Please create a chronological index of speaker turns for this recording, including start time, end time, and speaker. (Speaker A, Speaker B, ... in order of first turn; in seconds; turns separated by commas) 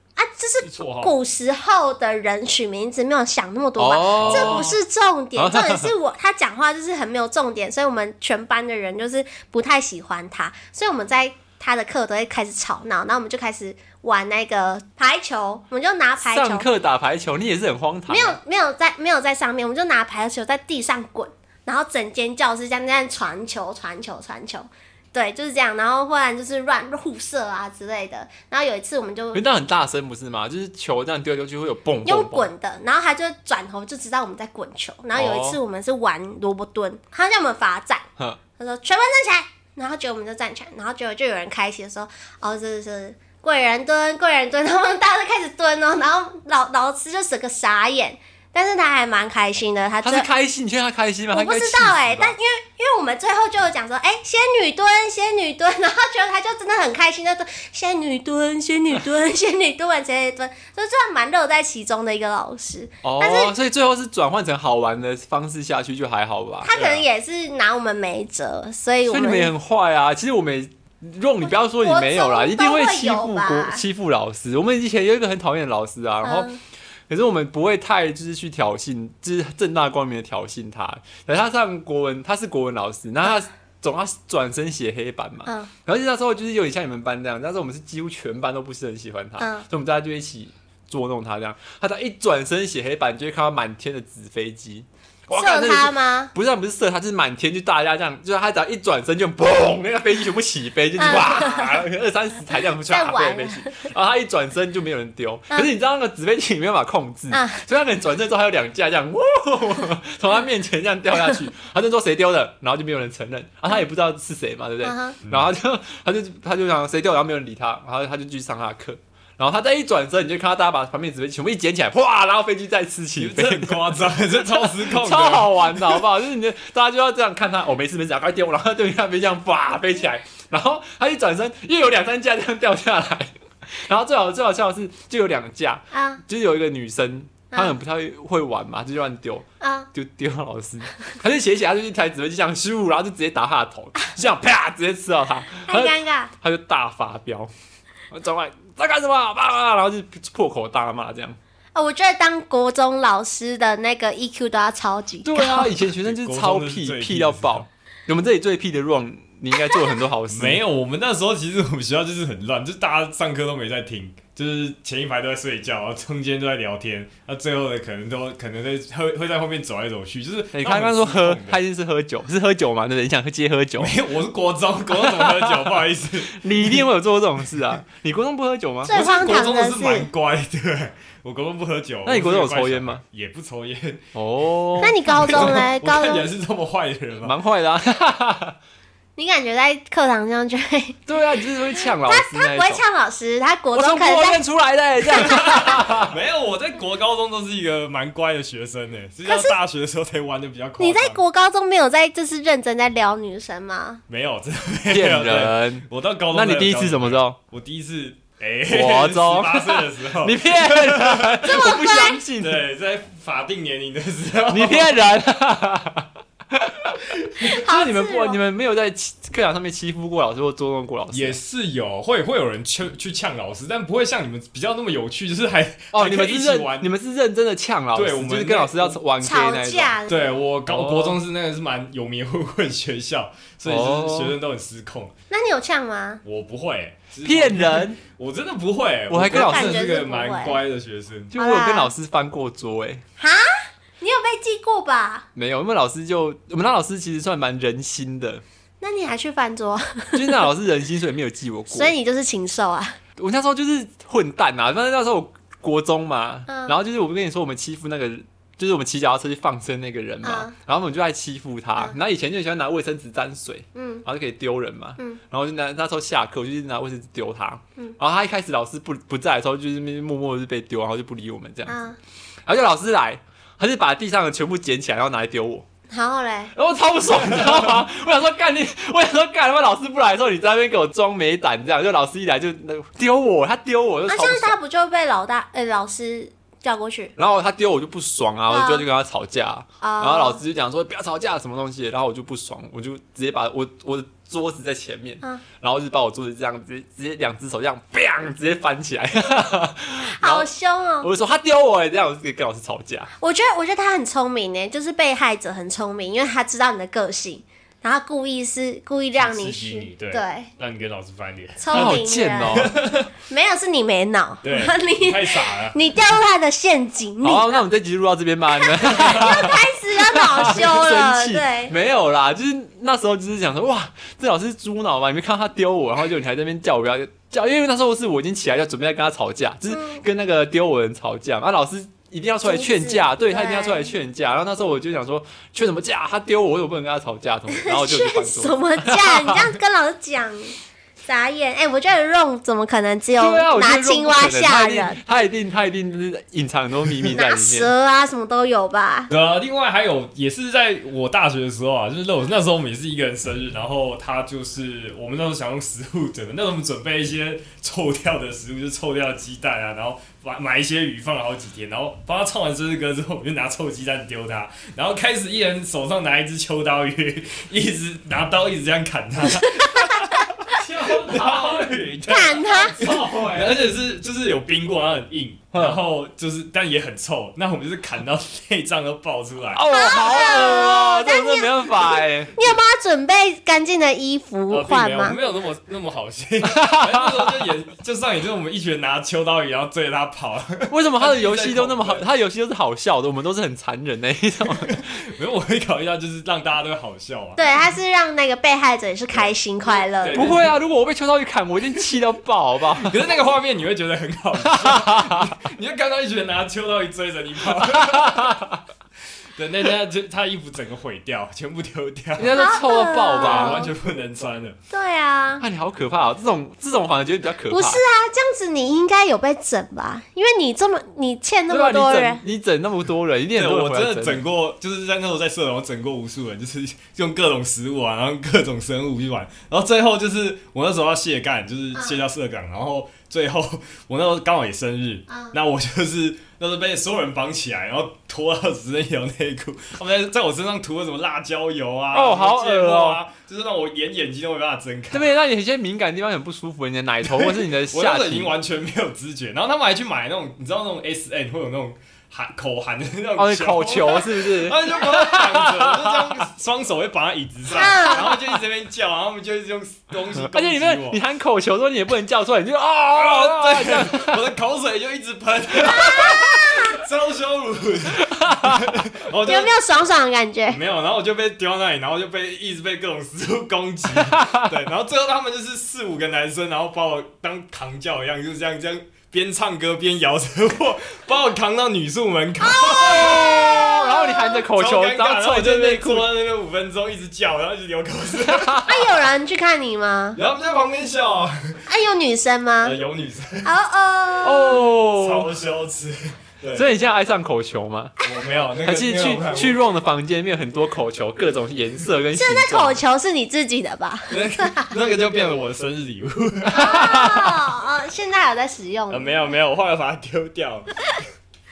Speaker A: 0.2-16.7, Speaker B: 0.6-1.1, Speaker C: 3.8-4.7, Speaker B: 4.2-4.8, Speaker C: 5.4-5.9, Speaker C: 16.2-18.4, Speaker A: 18.1-29.4, Speaker C: 29.3-32.5, Speaker A: 32.0-38.0, Speaker C: 35.1-35.6, Speaker A: 38.6-50.3, Speaker C: 50.0-52.4, Speaker A: 51.3-63.5, Speaker C: 63.0-66.8, Speaker A: 66.6-69.5, Speaker B: 66.7-67.0, Speaker C: 69.1-76.5, Speaker A: 71.5-73.8, Speaker A: 76.2-76.6, Speaker C: 77.1-147.5, Speaker A: 89.4-89.7, Speaker A: 95.3-96.3, Speaker A: 101.0-101.8, Speaker A: 102.9-103.8, Speaker A: 107.3-107.7, Speaker A: 114.8-115.2, Speaker B: 123.2-126.0, Speaker A: 135.9-136.2, Speaker A: 139.6-139.9, Speaker A: 145.7-146.3, Speaker C: 148.1-151.4, Speaker A: 151.8-155.7, Speaker C: 155.2-160.6, Speaker B: 155.9-157.7, Speaker B: 160.3-171.6, Speaker C: 170.5-173.9, Speaker B: 173.8-176.9, Speaker C: 175.0-175.8, Speaker C: 176.3-179.0, Speaker A: 178.8-180.1, Speaker B: 178.9-184.0, Speaker C: 182.0-183.0, Speaker C: 184.1-185.6, Speaker A: 184.8-186.3, Speaker B: 185.1-187.3, Speaker C: 187.2-188.6, Speaker A: 189.2-191.0, Speaker C: 191.1-192.8, Speaker A: 191.8-194.4, Speaker C: 193.7-196.1, Speaker A: 195.1-195.6, Speaker B: 195.4-201.2, Speaker A: 199.2-199.6, Speaker A: 200.8-204.0, Speaker B: 204.1-211.4, Speaker C: 204.9-207.4, Speaker C: 208.7-212.6, Speaker A: 211.4-212.2, Speaker B: 212.4-215.0, Speaker C: 214.5-221.4, Speaker A: 217.4-218.4, Speaker B: 221.1-226.9, Speaker C: 225.9-229.9, Speaker B: 227.9-229.0, Speaker A: 229.2-230.3, Speaker B: 230.1-235.1, Speaker C: 230.7-231.2, Speaker C: 233.7-234.4, Speaker A: 235.3-236.2, Speaker B: 236.2-241.3, Speaker C: 237.2-238.0, Speaker C: 239.1-239.8, Speaker A: 239.3-240.6, Speaker C: 241.3-243.0, Speaker A: 241.3-241.9, Speaker A: 243.2-245.3, Speaker C: 245.3-248.4, Speaker A: 248.8-250.4, Speaker C: 250.1-251.9, Speaker A: 251.7-253.0, Speaker C: 253.2-271.8, Speaker A: 256.5-256.8, Speaker A: 260.2-260.5, Speaker A: 263.8-264.1, Speaker A: 271.7-272.0, Speaker C: 272.5-275.7, Speaker A: 275.9-276.5, Speaker C: 276.5-284.6, Speaker A: 284.1-287.1, Speaker C: 287.2-300.5, Speaker A: 288.5-288.8, Speaker A: 289.8-290.4, Speaker A: 300.0-301.1, Speaker C: 301.0-303.1, Speaker A: 303.2-310.5, Speaker B: 309.2-312.0, Speaker A: 311.6-312.7, Speaker C: 311.7-312.8, Speaker B: 312.5-313.1, Speaker A: 313.3-317.6, Speaker B: 314.4-315.8, Speaker C: 317.2-339.5, Speaker A: 318.5-321.7, Speaker A: 329.7-330.0, Speaker A: 332.4-333.9, Speaker A: 337.5-340.5, Speaker A: 341.1-345.0, Speaker C: 343.1-347.7, Speaker A: 347.1-349.1, Speaker B: 349.1-379.7, Speaker A: 369.5-370.2, Speaker C: 370.5-373.6, Speaker A: 372.1-372.8, Speaker C: 375.5-375.8, Speaker C: 379.6-382.5, Speaker A: 379.7-385.2, Speaker B: 384.5-392.1, Speaker C: 386.4-387.5, Speaker C: 390.7-395.0, Speaker B: 394.6-397.4, Speaker A: 397.4-400.3, Speaker B: 399.2-400.6, Speaker C: 400.1-403.0, Speaker B: 402.8-408.3, Speaker C: 404.4-405.3, Speaker C: 407.5-408.6, Speaker B: 409.4-412.4, Speaker C: 412.2-413.6, Speaker A: 412.4-413.7, Speaker B: 413.2-414.6, Speaker A: 414.7-415.4, Speaker C: 415.4-417.8, Speaker A: 417.5-422.2, Speaker C: 421.5-424.2, Speaker B: 423.4-445.1, Speaker C: 441.9-443.0, Speaker C: 444.9-448.3, Speaker B: 447.1-461.0, Speaker C: 453.2-456.2, Speaker A: 457.5-458.2, Speaker C: 460.1-464.2, Speaker B: 462.9-469.5, Speaker C: 465.6-466.6, Speaker A: 465.7-466.8, Speaker C: 468.0-468.6, Speaker A: 469.2-470.6, Speaker B: 470.5-483.3, Speaker C: 473.9-474.5, Speaker A: 482.4-484.5, Speaker C: 482.8-486.1, Speaker B: 484.5-488.6, Speaker C: 488.2-488.8, Speaker A: 488.7-490.2, Speaker B: 490.1-491.6, Speaker A: 491.7-492.8, Speaker B: 492.6-493.5, Speaker A: 493.4-494.6, Speaker C: 494.2-495.3, Speaker B: 494.8-496.6, Speaker C: 496.6-497.9, Speaker B: 498.0-499.6, Speaker C: 498.6-502.8, Speaker A: 502.1-504.7, Speaker B: 504.1-506.7, Speaker C: 506.4-507.4, Speaker A: 506.5-509.3, Speaker B: 508.9-511.0